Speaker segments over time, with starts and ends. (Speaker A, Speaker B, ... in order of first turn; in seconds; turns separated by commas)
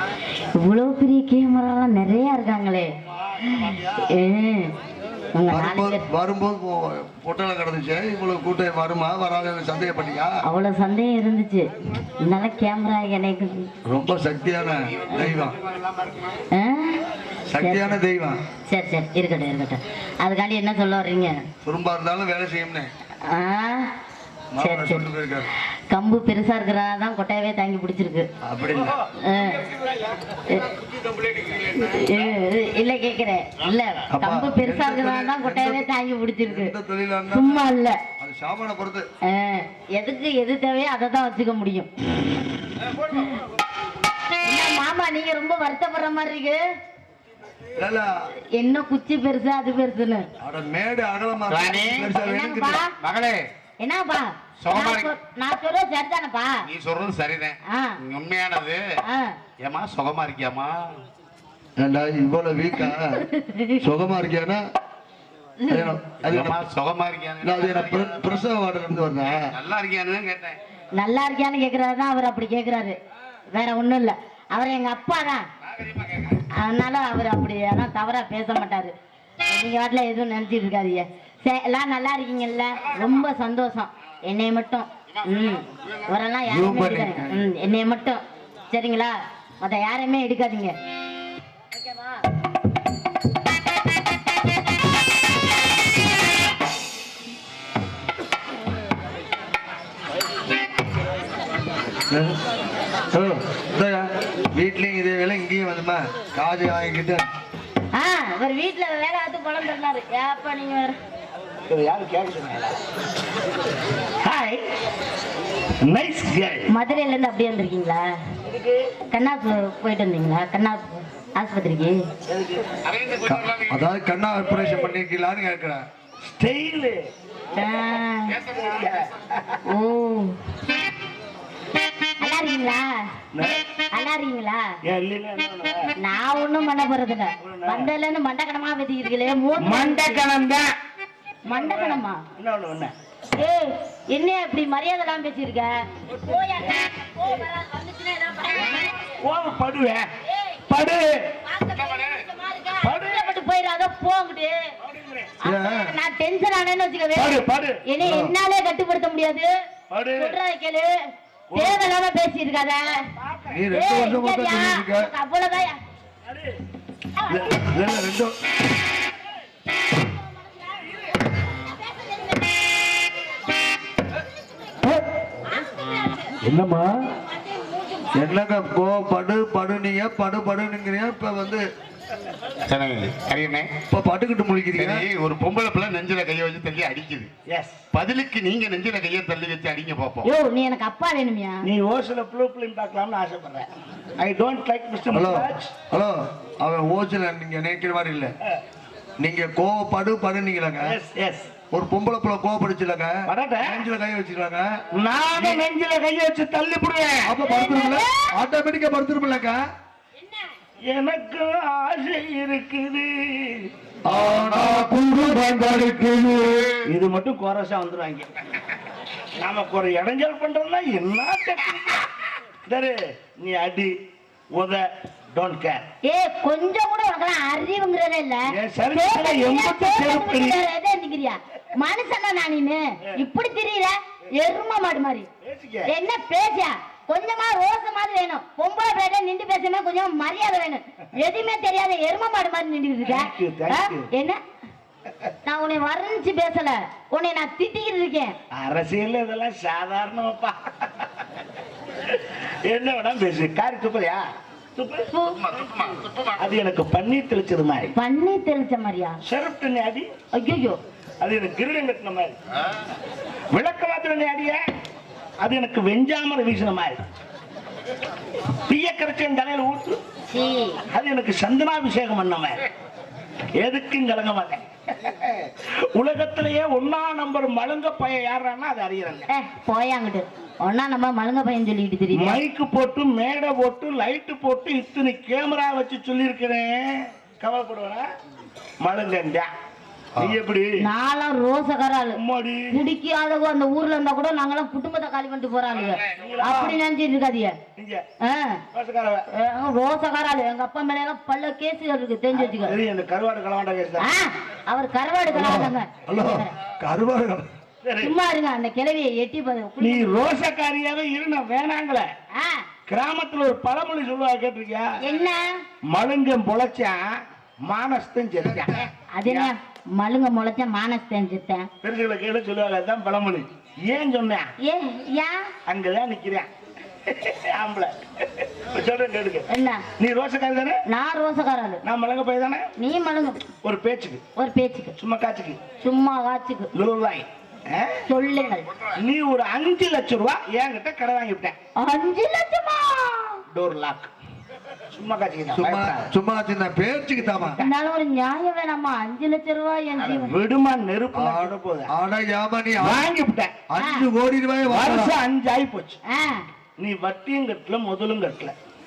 Speaker A: 0.6-2.9, Speaker A: 3.5-4.7, Speaker A: 5.3-6.0, Speaker B: 5.5-10.4, Speaker A: 10.4-11.7, Speaker A: 12.2-13.7, Speaker B: 13.8-15.6, Speaker C: 14.8-16.4, Speaker A: 16.5-17.0, Speaker B: 17.5-18.4, Speaker A: 17.6-18.0, Speaker A: 18.7-21.4, Speaker B: 21.6-22.9, Speaker A: 23.3-23.9, Speaker B: 24.5-25.5, Speaker A: 24.6-25.1, Speaker A: 25.9-28.3, Speaker B: 28.4-29.0, Speaker A: 29.2-29.6, Speaker C: 31.1-31.5, Speaker A: 31.7-36.8, Speaker B: 34.1-35.9, Speaker B: 36.5-39.1, Speaker A: 37.3-38.0, Speaker A: 39.2-41.9, Speaker A: 44.5-46.6, Speaker B: 47.8-48.1, Speaker A: 48.5-50.3, Speaker B: 50.4-52.8, Speaker C: 51.5-52.1, Speaker A: 52.2-52.9, Speaker C: 53.0-53.5, Speaker A: 53.8-56.6, Speaker C: 54.6-55.1, Speaker C: 56.7-58.8, Speaker A: 57.7-58.0, Speaker A: 59.0-59.4, Speaker C: 59.6-61.0, Speaker B: 61.8-63.2, Speaker A: 62.8-63.8, Speaker B: 63.8-64.6, Speaker A: 65.6-65.9, Speaker B: 65.7-66.7, Speaker C: 66.2-68.4, Speaker B: 67.4-69.5, Speaker C: 69.3-70.6, Speaker A: 71.0-73.0, Speaker A: 73.5-75.5, Speaker C: 75.9-76.3, Speaker A: 76.5-78.9, Speaker A: 79.5-90.7, Speaker B: 86.5-87.4, Speaker A: 91.8-92.2, Speaker B: 102.1-102.4, Speaker B: 103.1-107.3, Speaker A: 107.9-111.0, Speaker D: 111.7-112.8, Speaker D: 114.2-114.6, Speaker D: 115.8-116.7, Speaker A: 116.7-118.1, Speaker D: 118.5-118.8, Speaker A: 119.1-122.0, Speaker D: 122.3-122.7, Speaker C: 122.8-123.8, Speaker B: 123.3-125.9, Speaker D: 124.5-124.9, Speaker D: 126.2-127.1, Speaker A: 127.5-128.4, Speaker D: 128.5-129.6, Speaker A: 129.7-130.3, Speaker A: 132.2-132.9, Speaker D: 133.3-133.6, Speaker A: 133.9-134.6, Speaker D: 134.8-135.9, Speaker A: 136.0-140.2, Speaker D: 137.4-137.9, Speaker D: 139.6-140.7, Speaker A: 141.5-142.2, Speaker D: 141.5-142.9, Speaker A: 143.4-148.9, Speaker D: 149.0-150.1, Speaker A: 150.3-150.6, Speaker D: 150.7-151.3, Speaker A: 151.5-154.6, Speaker C: 151.9-152.2, Speaker D: 152.8-153.3, Speaker D: 154.8-155.3, Speaker A: 155.4-159.5, Speaker B: 155.4-155.9, Speaker D: 157.2-157.8, Speaker B: 158.0-158.4, Speaker D: 159.9-160.3, Speaker A: 160.2-160.9, Speaker D: 161.5-161.9, Speaker A: 161.5-163.0, Speaker D: 163.2-163.6, Speaker B: 163.5-165.1, Speaker A: 163.7-165.8, Speaker D: 166.3-166.6, Speaker A: 167.2-167.6, Speaker B: 167.3-168.3, Speaker B: 176.4-176.9, Speaker B: 178.2-181.6, Speaker C: 182.7-183.7, Speaker B: 183.9-185.1, Speaker C: 184.7-187.3, Speaker D: 187.5-187.8, Speaker C: 187.9-190.3, Speaker A: 190.2-191.6, Speaker D: 191.6-195.7, Speaker B: 195.1-198.4, Speaker B: 199.2-200.9, Speaker D: 200.8-201.5, Speaker B: 201.7-204.8, Speaker D: 203.3-203.8, Speaker D: 204.9-207.3, Speaker B: 207.2-209.6, Speaker A: 207.4-208.3, Speaker D: 210.8-213.7, Speaker B: 214.1-216.7, Speaker D: 216.9-218.3, Speaker D: 219.4-222.1, Speaker D: 222.7-223.9, Speaker D: 224.5-225.8, Speaker A: 226.0-235.3, Speaker D: 228.5-230.6, Speaker D: 235.4-235.9, Speaker A: 235.9-244.4, Speaker D: 243.1-244.1, Speaker A: 245.5-248.4, Speaker D: 248.5-251.1, Speaker D: 252.1-254.2, Speaker D: 254.8-255.1, Speaker A: 255.1-255.4, Speaker C: 255.4-256.4, Speaker D: 256.4-257.9, Speaker A: 257.9-259.2, Speaker D: 259.2-260.1, Speaker A: 260.3-260.8, Speaker D: 261.2-262.4, Speaker D: 263.5-264.6, Speaker D: 265.4-267.0, Speaker D: 268.7-270.0, Speaker A: 270.3-270.8, Speaker D: 270.9-272.6, Speaker D: 273.6-279.3, Speaker A: 279.3-282.4, Speaker D: 282.1-288.1, Speaker D: 288.8-289.5, Speaker D: 290.2-290.8, Speaker A: 290.8-292.2, Speaker D: 292.2-292.8, Speaker A: 292.7-297.6, Speaker D: 296.2-296.8, Speaker D: 297.8-298.0, Speaker A: 298.2-298.6, Speaker D: 298.7-299.2, Speaker A: 299.3-302.8, Speaker D: 302.3-304.1, Speaker A: 304.0-306.5, Speaker B: 305.3-307.5, Speaker D: 307.8-308.1, Speaker A: 308.0-310.1, Speaker D: 309.8-312.1, Speaker A: 312.4-312.6, Speaker D: 312.9-314.9, Speaker A: 315.0-315.4, Speaker D: 315.9-317.1, Speaker D: 317.6-319.5, Speaker A: 318.8-321.7, Speaker D: 321.8-324.5, Speaker A: 324.6-325.5, Speaker D: 325.7-326.5, Speaker D: 327.1-329.5, Speaker A: 329.5-329.8, Speaker D: 330.0-330.8, Speaker A: 330.9-331.8, Speaker D: 331.8-332.7, Speaker A: 332.8-333.4, Speaker D: 333.6-334.2, Speaker A: 334.4-334.9, Speaker D: 335.0-335.6, Speaker A: 335.8-336.7, Speaker D: 336.7-338.0, Speaker A: 338.1-338.7, Speaker D: 339.0-341.6, Speaker A: 341.8-343.4, Speaker D: 343.5-344.1, Speaker D: 344.9-346.1, Speaker B: 345.5-347.6, Speaker D: 347.2-347.7, Speaker A: 347.6-350.3, Speaker D: 350.0-351.9, Speaker B: 351.1-353.1, Speaker D: 352.8-353.6, Speaker B: 353.7-355.1, Speaker A: 353.8-354.1, Speaker D: 354.7-356.0, Speaker A: 356.1-356.4, Speaker D: 356.8-358.5